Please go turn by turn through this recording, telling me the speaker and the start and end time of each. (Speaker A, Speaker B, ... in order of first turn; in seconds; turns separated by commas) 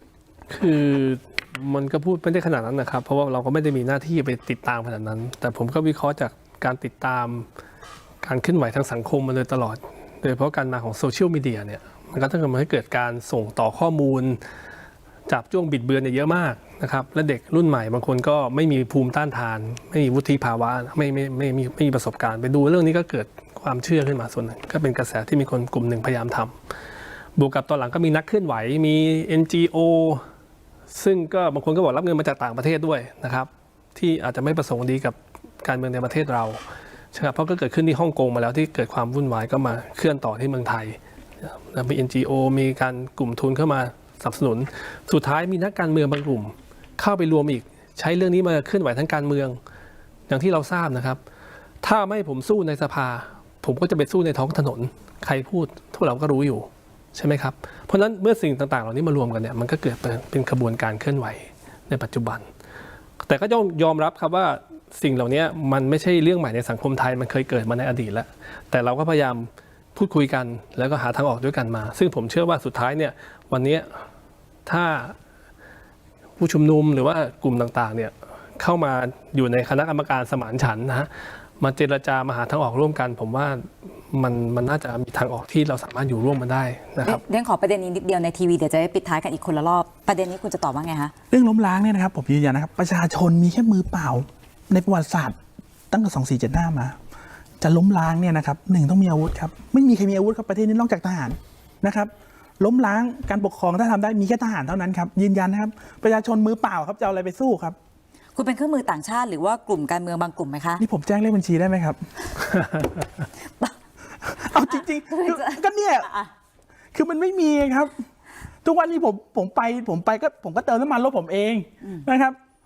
Speaker A: 0.5-7.5, Speaker A: 8.2-14.4, Speaker A: 15.3-26.5, Speaker A: 27.4-30.2, Speaker A: 30.9-36.6, Speaker A: 37.1-49.6, Speaker A: 50.3-51.2, Speaker A: 51.8-62.5, Speaker A: 63.2-74.0, Speaker A: 74.7-75.2, Speaker A: 76.4-87.2, Speaker B: 87.0-91.1, Speaker C: 91.3-95.4, Speaker C: 95.9-97.0, Speaker C: 97.6-107.8, Speaker B: 108.4-110.8, Speaker C: 110.8-112.0, Speaker C: 114.3-116.1, Speaker B: 114.6-116.3, Speaker C: 116.9-117.9, Speaker C: 118.6-122.4